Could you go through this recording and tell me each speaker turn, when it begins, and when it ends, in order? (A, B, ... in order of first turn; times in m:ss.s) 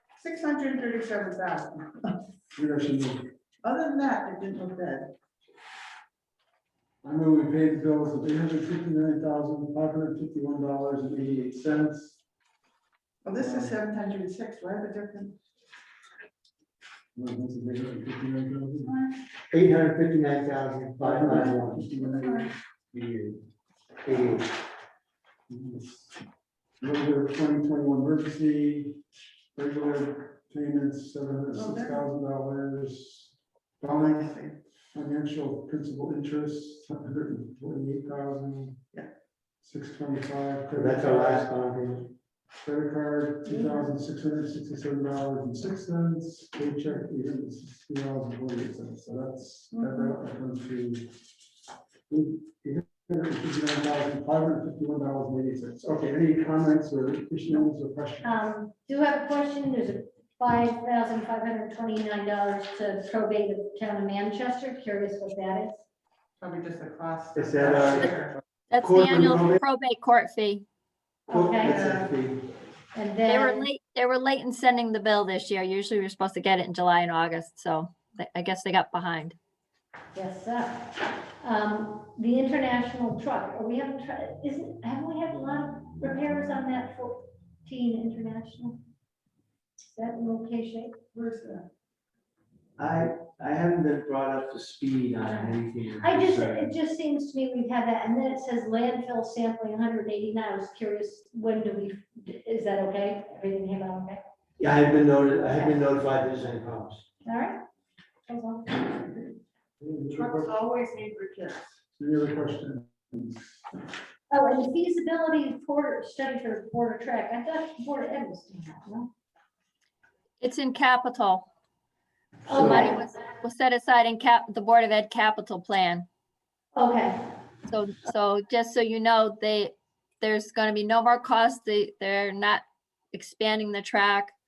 0:00.2-0:02.2 A
0:02.6-0:03.3 B
0:03.6-0:05.1 A
0:07.0-0:12.2 B
0:13.2-0:15.4 A
0:13.3-0:13.8 B
0:17.2-0:19.0 B
0:19.5-0:21.9 C
0:21.0-0:22.5 B
0:22.9-0:23.4 C
0:24.0-0:24.5 C
0:25.5-0:26.1 B
0:26.8-0:29.0 B
0:29.6-0:34.2 B
0:31.5-0:32.0 A
0:34.0-0:34.5 A
0:35.0-0:38.8 B
0:39.6-0:41.5 B
0:40.8-0:42.1 C
0:42.6-0:51.1 B
0:43.5-0:43.8 A
0:49.8-0:50.1 A
0:52.1-0:58.3 B
0:58.2-1:05.8 D
1:06.4-1:08.3 A
1:07.4-1:08.1 C
1:08.7-1:10.7 E
1:08.8-1:09.6 C
1:11.3-1:11.8 D
1:11.3-1:12.4 C
1:11.6-1:12.1 A
1:13.0-1:13.7 D
1:13.3-1:19.4 E
1:20.1-1:28.8 D
1:29.9-1:31.0 D
1:31.1-1:31.7 A
1:32.8-1:36.7 C
1:35.2-1:44.2 D
1:44.6-1:47.1 C
1:45.5-1:45.7 D
1:47.2-1:47.6 D
1:48.3-1:48.9 D
1:49.8-1:50.7 B
1:50.2-1:51.7 A
1:52.0-1:53.6 B
1:54.3-1:59.1 D
2:00.4-2:01.5 E
2:02.5-2:03.0 D
2:02.5-2:02.9 C
2:02.8-2:06.1 E
2:06.7-2:07.2 D
2:07.7-2:14.4 E